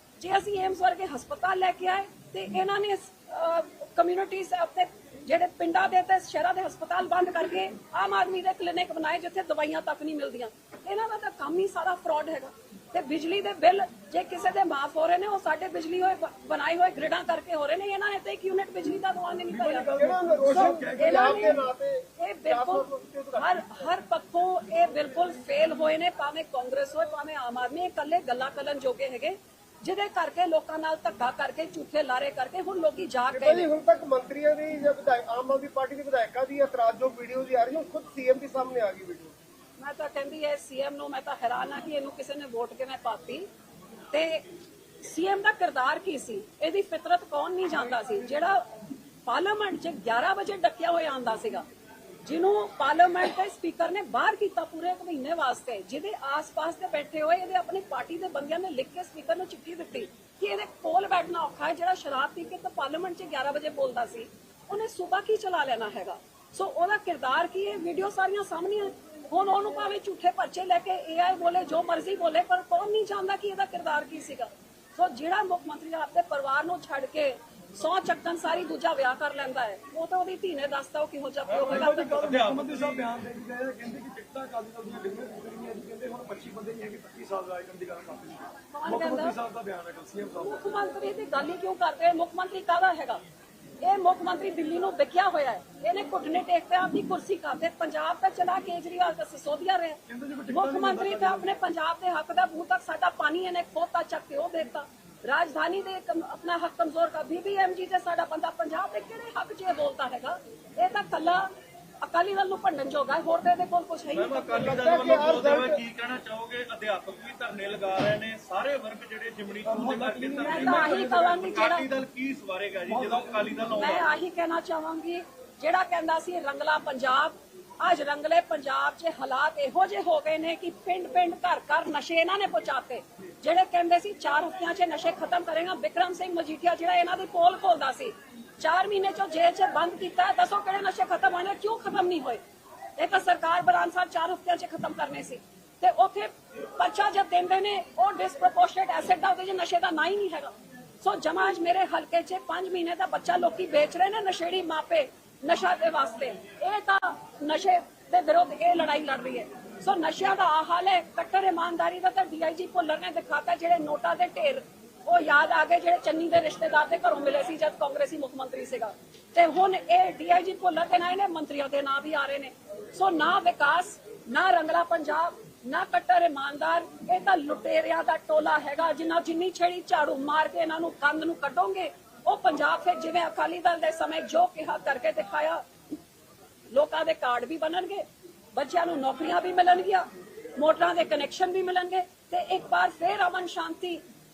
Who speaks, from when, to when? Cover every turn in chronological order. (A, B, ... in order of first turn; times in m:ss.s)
0:00.2-0:19.9 A
0:19.5-0:21.5 B
0:19.9-0:23.8 C
0:20.5-0:21.6 A
0:22.2-0:33.7 A
0:33.3-0:39.4 C
0:39.8-0:43.5 A
0:44.1-0:44.4 A
0:45.0-0:48.7 A
0:49.2-0:51.7 A
0:52.2-1:22.2 A
1:21.5-1:23.1 D
1:21.7-1:30.6 B
1:28.7-1:29.4 A
1:30.4-1:33.2 A
1:33.8-1:51.5 A
1:40.1-1:41.5 B
1:52.0-1:54.7 A
1:54.1-2:04.1 D
1:54.5-1:55.8 C
1:59.7-2:01.4 B
2:00.4-2:01.9 A
2:02.9-2:03.8 B
2:03.8-2:22.4 A
2:23.0-3:05.6 A
3:06.7-3:14.0 A